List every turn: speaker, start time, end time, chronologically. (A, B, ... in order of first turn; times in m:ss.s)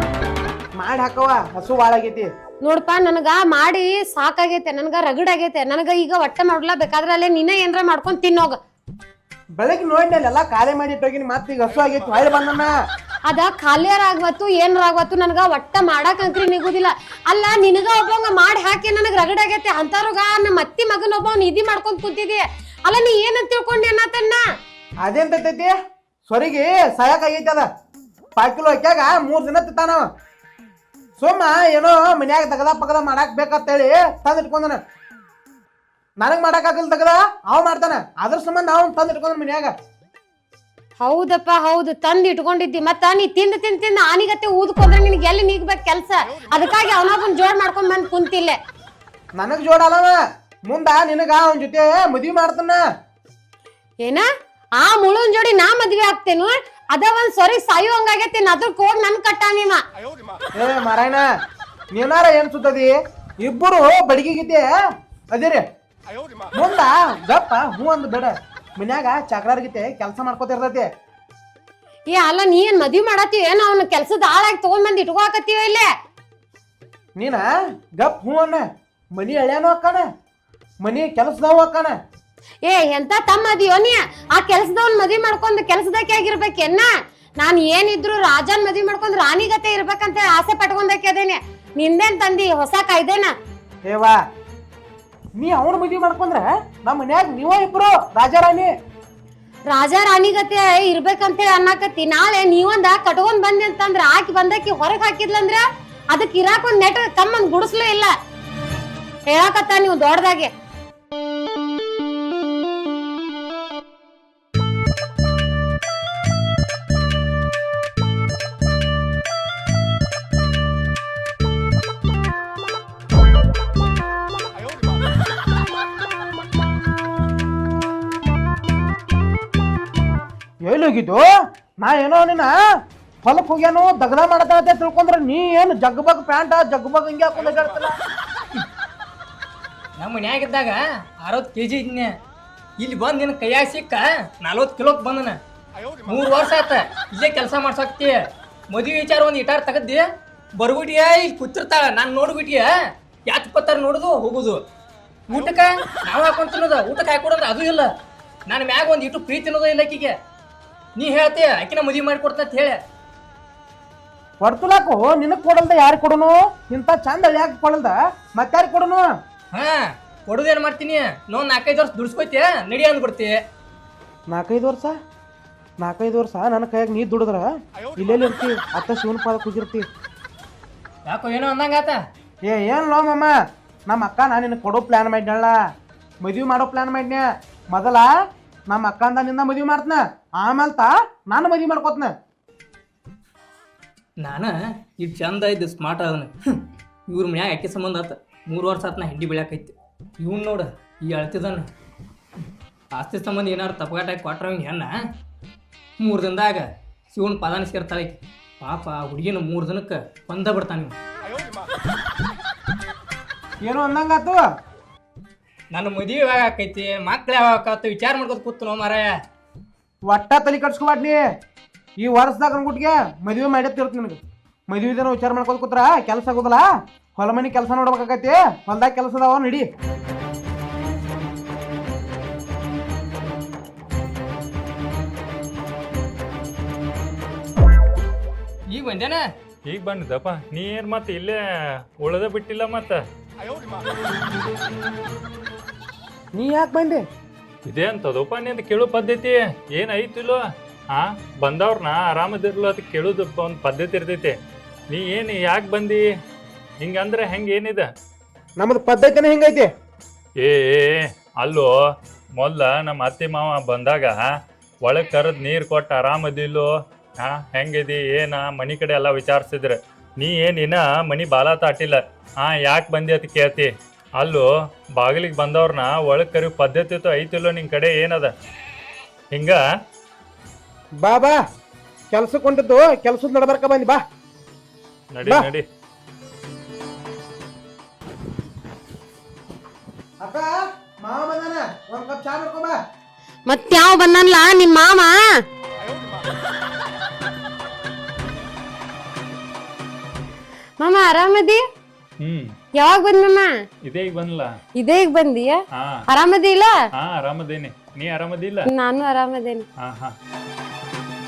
0:00.8-0:02.3 A
0:02.6-0:08.6 B
0:09.6-0:12.7 A
0:13.3-0:24.4 B
0:25.0-0:25.8 A
0:26.3-0:27.7 A
0:28.4-0:30.1 A
0:31.2-0:34.8 A
0:36.2-0:39.7 A
0:41.0-0:48.6 B
0:49.4-0:50.2 A
0:50.7-0:52.8 A
0:54.8-0:59.8 B
1:00.6-1:01.3 A
1:01.9-1:04.7 A
1:05.3-1:05.6 A
1:06.6-1:10.9 A
1:12.1-1:15.9 B
1:17.2-1:17.5 A
1:18.0-1:20.1 A
1:20.8-1:22.0 A
1:22.6-1:33.3 B
1:33.8-1:34.2 A
1:35.4-1:38.7 A
1:39.7-1:48.1 B
1:49.3-1:50.5 B
2:10.6-2:12.5 A
2:13.2-2:18.0 A
2:20.0-2:22.1 C
2:22.8-2:25.4 C
2:26.1-2:28.2 C
2:28.7-2:30.0 C
2:30.6-2:32.7 C
2:33.3-2:34.6 C
2:35.3-2:37.9 C
2:38.5-2:40.2 C
2:41.0-2:42.8 C
2:44.4-2:49.1 A
2:49.5-2:53.4 C
2:54.3-2:55.0 A
2:55.8-2:59.9 A
3:01.1-3:02.0 C
3:02.4-3:03.4 A
3:03.9-3:05.5 A
3:06.2-3:08.1 A
3:08.7-3:12.1 A
3:14.2-3:21.7 C
3:22.9-3:24.9 C
3:26.0-3:31.0 C
3:33.6-3:34.4 A
3:35.7-3:39.2 C
3:40.0-3:41.2 A
3:42.0-3:46.6 A
3:47.2-3:49.7 A
3:58.7-3:59.3 C
3:59.7-4:01.4 D
4:02.0-4:03.0 D
4:06.4-4:07.0 A
4:07.7-4:10.4 D
4:10.9-4:14.4 D
4:14.9-4:16.0 D
4:16.8-4:17.9 D
4:18.6-4:19.7 A
4:20.4-4:21.7 D
4:22.4-4:24.3 D
4:24.8-4:34.5 D
4:35.0-4:38.3 D
4:39.3-4:39.6 D
4:41.0-4:41.4 A
4:42.1-4:44.0 A
4:45.2-4:45.6 D
4:50.2-4:52.8 A
4:53.5-4:55.4 B
5:00.8-5:01.6 B
5:02.2-5:02.5 D
5:02.8-5:03.5 B
5:03.9-5:04.5 D
5:04.8-5:05.6 B
5:05.8-5:06.0 D
5:06.1-5:06.7 B
5:07.0-5:08.7 D
5:08.7-5:09.6 B
5:09.8-5:10.1 D